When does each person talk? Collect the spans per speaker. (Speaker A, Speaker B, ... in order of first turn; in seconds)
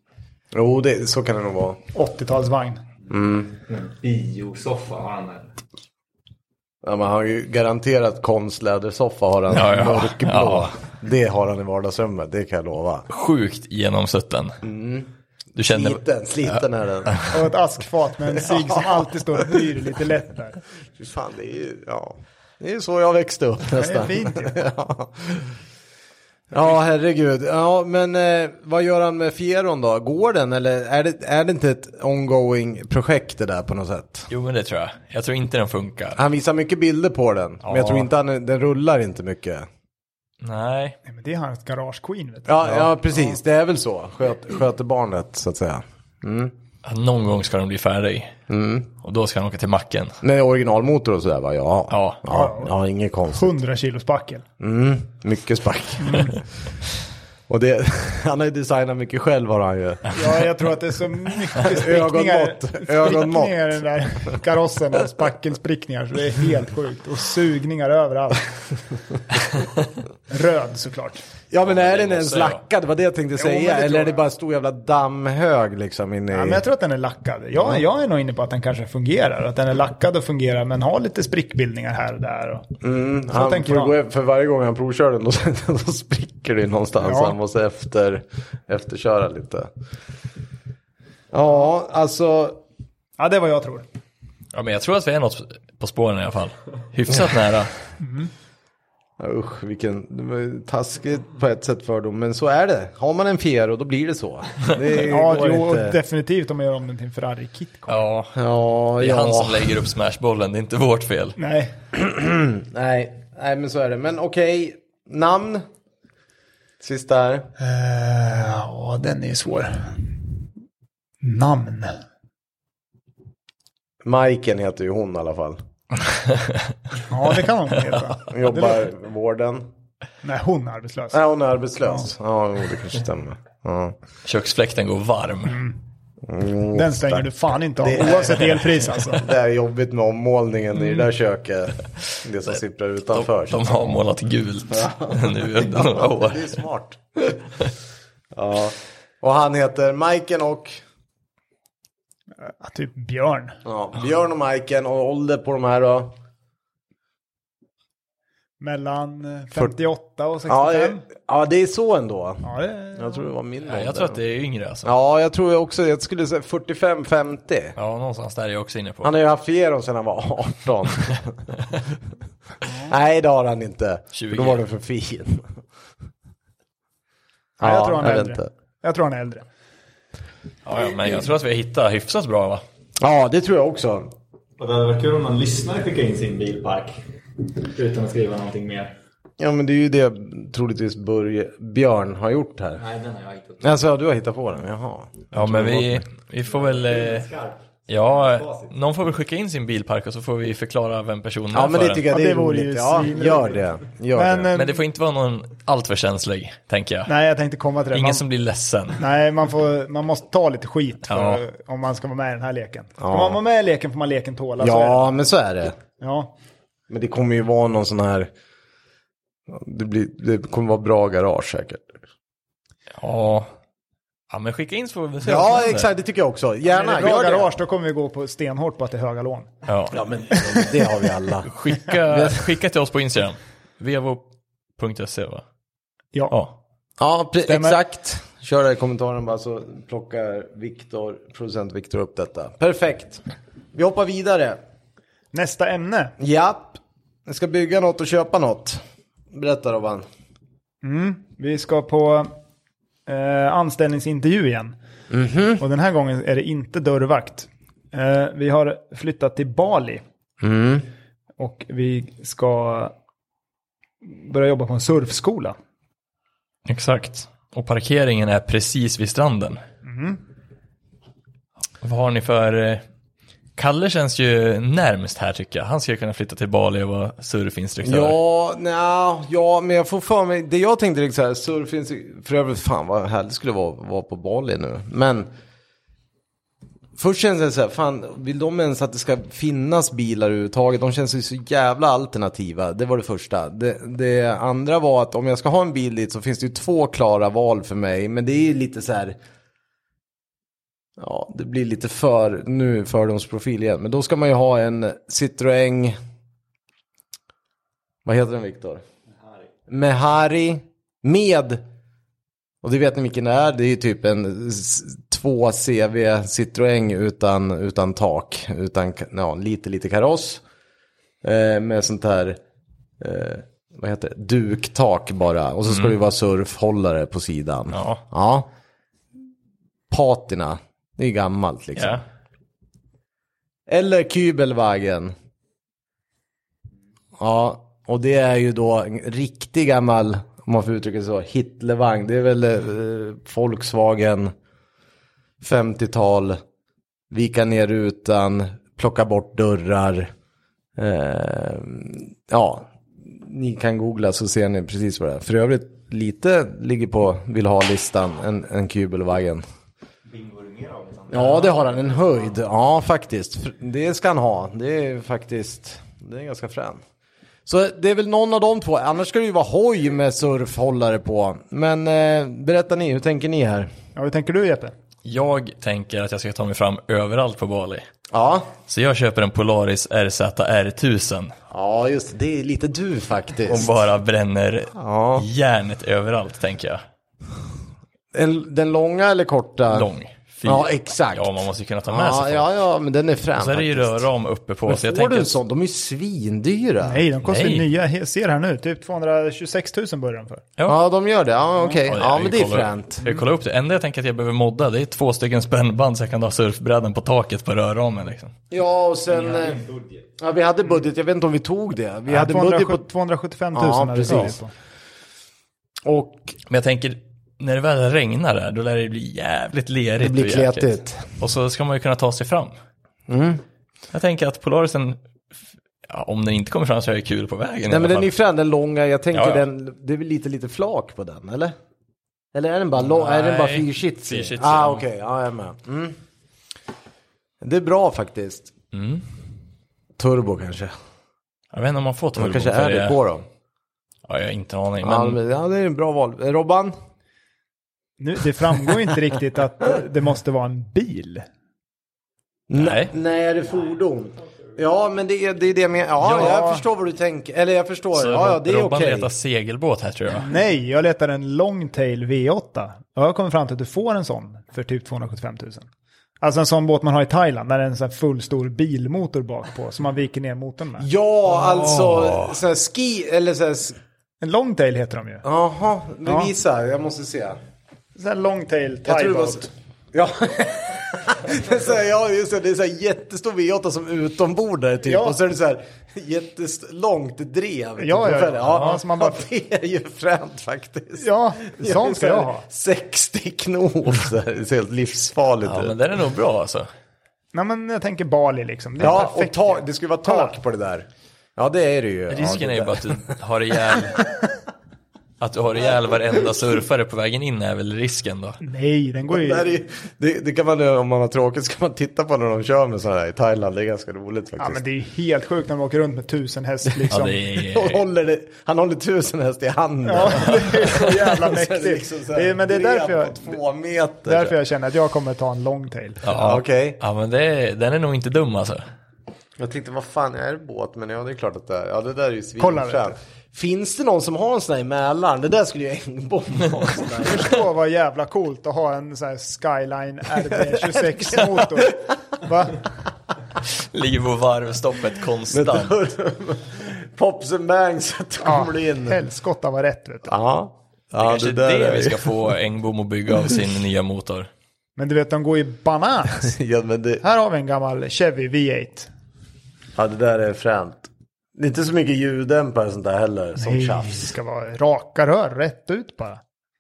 Speaker A: 0.5-1.8, 3.1-3.6, 6.8-13.1, 14.6-15.1, 15.7-17.4, 18.3-19.6, 20.9-25.6, 26.5-34.3, 36.1-39.6, 42.5-46.5, 48.5-48.9, 50.2-53.5, 54.6-56.4, 57.5-60.1, 61.6-63.7, 71.5-76.6, 82.8-89.7, 91.3-92.6, 99.2-106.0, 108.3-109.8, 111.9-115.6, 116.8-117.5, 124.0-125.6, 128.3-129.7, 131.1-133.9, 136.2-137.3, 137.8-143.9, 144.7-147.4, 148.3-150.8, 153.6-156.1, 160.5-164.2, 164.8-167.8, 169.0-171.4, 172.8-175.5, 177.6-178.5, 183.0-184.1, 189.4-192.8, 193.6-196.0, 201.5-204.5, 213.0-213.4, 214.6-215.8, 216.9-218.3, 219.5-222.0, 225.2-227.5, 229.9-232.5, 237.0-243.2, 243.7-244.6, 246.2-248.8, 249.3-250.1, 255.1-255.6, 260.4-260.9, 277.8-285.3, 287.0-299.1, 301.0-305.9, 308.0-308.8, 309.7-311.6, 312.6-320.4, 321.2-322.4, 323.0-328.5, 329.9-332.0, 333.7-335.1, 337.2-344.3, 345.4-346.4, 347.1-350.1, 350.8-359.4, 361.1-366.8, 367.4-373.7, 378.1-378.5, 381.5-383.7, 384.7-385.2, 388.1-389.9, 390.4-394.1, 394.6-397.0, 400.6-403.1, 408.5-409.6, 410.2-412.8, 413.5-414.4, 415.8-416.3, 420.0-421.1, 423.1-423.4, 427.7-431.5, 432.3-436.0, 437.4-438.5, 440.0-440.7, 442.1-443.2, 444.8-446.7, 452.5-459.1, 470.8-473.8, 475.2-477.4, 478.8-495.8, 498.8-503.1, 509.1-514.6, 517.3-524.4, 526.1-526.8, 529.4-537.4, 540.2-541.9, 545.3-549.0, 550.1-552.1, 556.2-557.0, 559.8-564.1
Speaker B: 1.9-2.8, 17.3-20.6, 23.7-24.6, 41.0-43.3, 52.3-52.7, 53.3-54.4, 56.0-56.4, 60.1-68.5, 70.3-71.2, 73.4-74.2, 76.3-82.7, 83.3-83.9, 87.0-87.4, 93.2-93.8, 98.0-98.3, 105.0-108.0, 111.4-111.7, 117.6-120.2, 121.2-122.0, 127.1-128.8, 130.2-131.2, 135.5-135.8, 136.7-139.2, 152.4-153.6, 158.6-161.0, 162.4-163.2, 177.6-179.4, 202.1-204.8, 207.1-208.2, 209.0-215.1, 216.0-216.3, 226.7-229.5, 230.3-230.7, 237.4-237.8, 245.3-246.2, 250.8-252.3, 253.1-254.8, 255.6-260.0, 261.4-262.9, 264.0-265.6, 269.8-270.2, 373.9-374.7, 396.8-400.4, 412.1-414.5, 448.0-451.2, 456.0-456.6, 460.2-465.7, 466.2-470.9, 474.2-475.2, 476.1-476.3, 477.9-479.5, 484.9-485.2, 487.8-489.2, 491.0-492.4, 497.3-500.3, 508.4-509.5, 514.4-517.2, 519.8-523.4, 524.0-526.0, 532.4-533.0, 537.0-542.6, 548.2-550.1, 554.8-556.3, 557.0-558.9, 563.4-566.2
Speaker C: 3.7-5.5, 184.6-187.0, 187.6-188.9, 192.8-193.8, 196.5-198.7, 360.1-362.1, 409.1-410.1
Speaker D: 9.5-10.7, 13.1-14.6, 15.6-17.3, 34.3-36.2, 37.6-38.1, 40.4-41.0, 46.8-48.3, 49.0-50.2, 51.9-52.2, 71.6-72.6, 94.5-97.7, 107.9-108.3, 109.0-111.4, 126.1-126.7, 134.2-135.6, 143.1-146.6, 163.7-164.9, 167.8-169.1, 174.1-174.6, 180.6-182.6, 195.3-197.3, 197.9-202.1, 204.5-207.1, 207.9-209.0, 211.1-211.4, 223.0-223.5, 224.3-225.9, 229.7-230.0, 231.4-234.2, 234.8-235.4, 266.6-269.6, 271.8-272.8, 273.6-278.1, 327.7-328.0, 331.8-332.0, 375.0-377.9, 378.7-381.3, 383.4-386.8, 389.7-392.5, 393.4-395.4, 397.2-397.7, 401.9-408.3, 416.5-422.5, 423.9-425.0, 425.9-428.1, 429.1-429.4, 432.8-434.8, 438.7-439.0, 441.5-443.0, 444.1-445.2, 452.5-452.9, 456.0-456.4, 457.9-460.3, 471.3-472.4, 495.4-496.7, 502.1-504.1, 505.2-508.4, 516.9-517.8, 526.0-528.6, 543.5-545.7, 551.0-554.3